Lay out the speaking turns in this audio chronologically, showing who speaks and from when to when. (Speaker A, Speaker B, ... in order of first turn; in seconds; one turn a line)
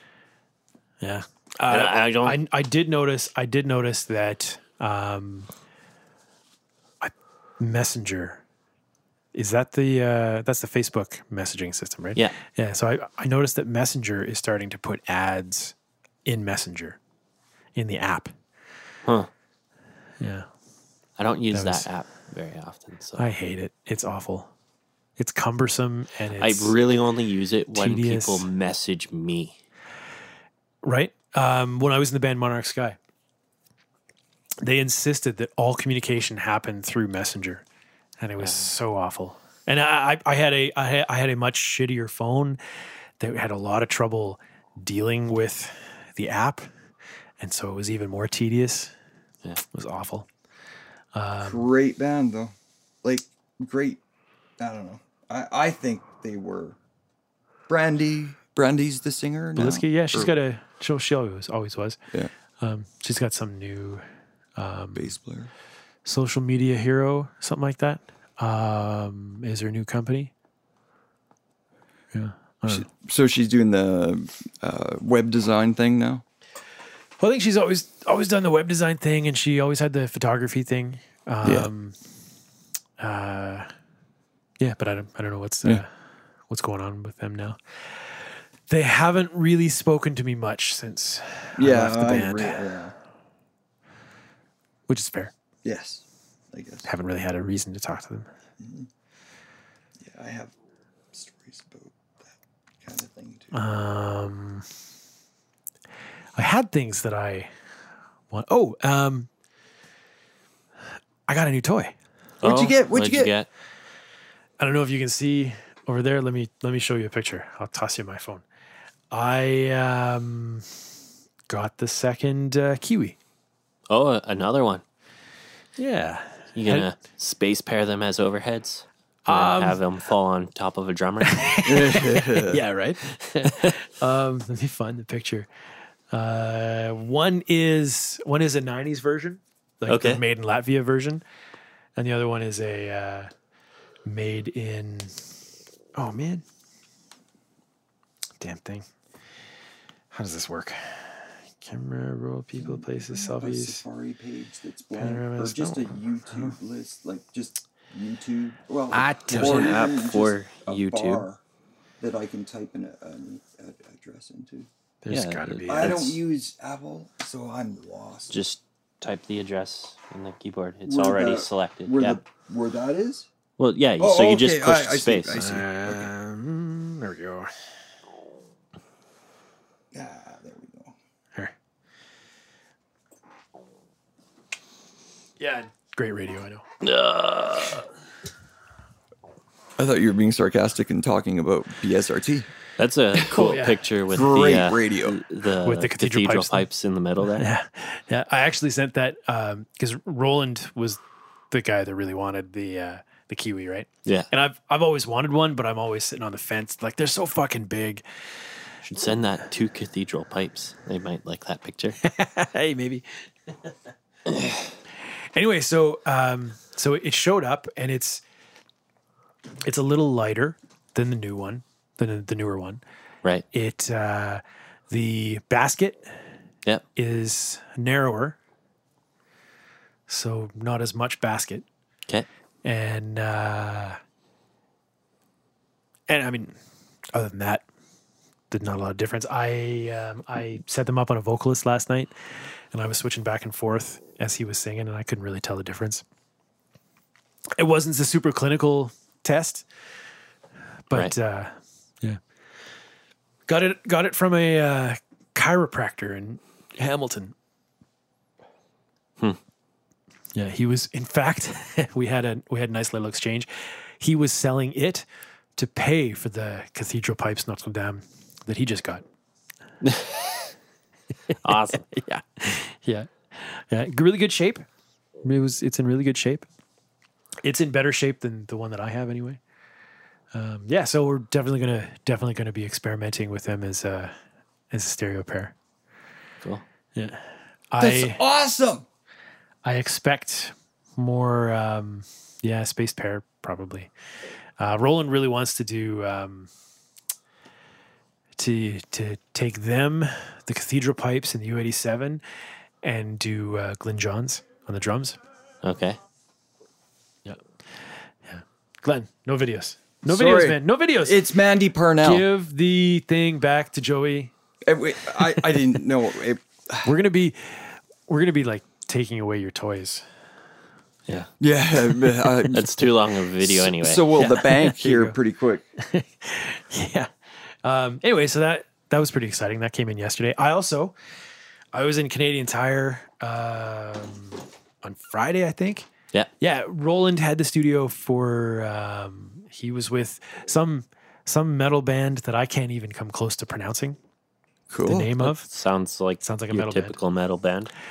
Speaker A: 1.0-5.5
Speaker B: 1.7-2.4
Speaker A: 7.0-8.4
Speaker A: 9.3-15.7
Speaker A: 16.2-17.0
Speaker A: 17.8-18.3
Speaker A: 20.2-20.5
Speaker B: 21.2-23.3
Speaker A: 21.5-21.9
Speaker A: 23.2-24.5
Speaker A: 25.2-26.8
Speaker B: 26.4-29.6
Speaker A: 27.7-28.5
Speaker A: 30.8-33.0
Speaker A: 34.6-37.6
Speaker A: 38.2-42.6
Speaker B: 38.4-38.7
Speaker A: 43.2-46.7
Speaker A: 47.4-48.9
Speaker A: 49.7-50.3
Speaker A: 51.1-51.7
Speaker C: 51.4-52.5
Speaker C: 53.0-54.0
Speaker C: 54.6-56.8
Speaker C: 57.7-60.3
Speaker A: 59.6-62.0
Speaker A: 62.6-64.0
Speaker A: 64.6-65.1
Speaker C: 64.9-65.5
Speaker A: 66.0-70.3
Speaker A: 72.1-72.9
Speaker C: 72.7-76.2
Speaker A: 77.2-82.0
Speaker C: 81.4-81.7
Speaker A: 83.0-83.7
Speaker A: 84.6-85.9
Speaker A: 86.5-92.6
Speaker C: 91.6-92.9
Speaker A: 94.9-95.3
Speaker C: 95.6-96.9
Speaker A: 96.8-98.3
Speaker C: 98.6-98.9
Speaker C: 100.0-100.5
Speaker C: 101.1-102.3
Speaker C: 102.8-103.5
Speaker A: 103.5-104.7
Speaker A: 106.4-107.5
Speaker A: 108.3-109.3
Speaker A: 111.3-111.9
Speaker C: 112.4-113.3
Speaker B: 112.4-113.5
Speaker A: 114.6-118.4
Speaker A: 119.1-120.7
Speaker A: 121.5-123.2
Speaker B: 123.9-124.8
Speaker A: 125.8-126.9
Speaker B: 126.5-131.6
Speaker A: 129.3-129.8
Speaker A: 131.2-135.5
Speaker C: 131.7-132.6
Speaker B: 133.4-133.8
Speaker A: 136.1-141.2
Speaker B: 139.9-140.2
Speaker A: 142.0-143.3
Speaker A: 144.1-145.1
Speaker A: 146.0-146.4
Speaker A: 148.4-148.8
Speaker A: 150.1-153.8
Speaker C: 152.6-161.4
Speaker A: 155.0-156.5
Speaker A: 158.9-159.7
Speaker B: 159.3-161.3
Speaker C: 162.0-164.7
Speaker A: 165.0-166.2
Speaker B: 165.1-166.1
Speaker C: 165.7-168.4
Speaker B: 168.3-172.2
Speaker C: 170.9-173.3
Speaker B: 173.6-175.4
Speaker C: 174.0-176.1
Speaker A: 175.3-177.5
Speaker C: 179.9-180.9
Speaker A: 185.4-186.7
Speaker B: 186.8-187.8
Speaker C: 189.8-192.5
Speaker B: 192.8-197.5
Speaker A: 193.3-193.8
Speaker C: 194.1-195.2
Speaker A: 195.7-196.6
Speaker A: 197.3-201.0
Speaker A: 201.5-208.0
Speaker B: 208.8-212.0
Speaker A: 212.0-213.0
Speaker A: 215.3-218.2
Speaker A: 219.6-222.8
Speaker A: 223.5-226.1
Speaker A: 226.9-228.4
Speaker A: 230.1-231.7
Speaker A: 232.6-234.0
Speaker A: 236.1-236.6
Speaker A: 237.1-237.7
Speaker A: 238.5-242.1
Speaker A: 242.7-246.0
Speaker A: 247.6-249.7
Speaker A: 250.9-252.2
Speaker A: 253.5-257.3
Speaker A: 260.4-263.5
Speaker A: 264.0-265.1
Speaker A: 265.6-269.0
Speaker B: 269.8-270.3
Speaker A: 271.3-274.6
Speaker B: 271.4-271.9
Speaker A: 275.2-276.5
Speaker A: 277.4-279.4
Speaker A: 280.3-284.1
Speaker A: 284.7-285.5
Speaker A: 286.9-288.2
Speaker C: 287.8-288.9
Speaker A: 289.6-293.9
Speaker A: 294.6-296.5
Speaker A: 298.4-302.2
Speaker A: 302.8-305.2
Speaker B: 305.6-306.0
Speaker A: 308.3-311.2
Speaker C: 310.1-312.3
Speaker A: 312.0-314.3
Speaker C: 314.6-316.9
Speaker A: 316.8-320.0
Speaker C: 321.4-322.7
Speaker B: 322.5-324.1
Speaker C: 323.4-325.6
Speaker A: 324.2-325.2
Speaker A: 325.8-327.1
Speaker A: 327.6-330.9
Speaker A: 331.7-335.9
Speaker A: 336.4-344.0
Speaker C: 344.7-345.1
Speaker A: 344.8-345.5
Speaker B: 345.2-347.7
Speaker A: 346.2-347.0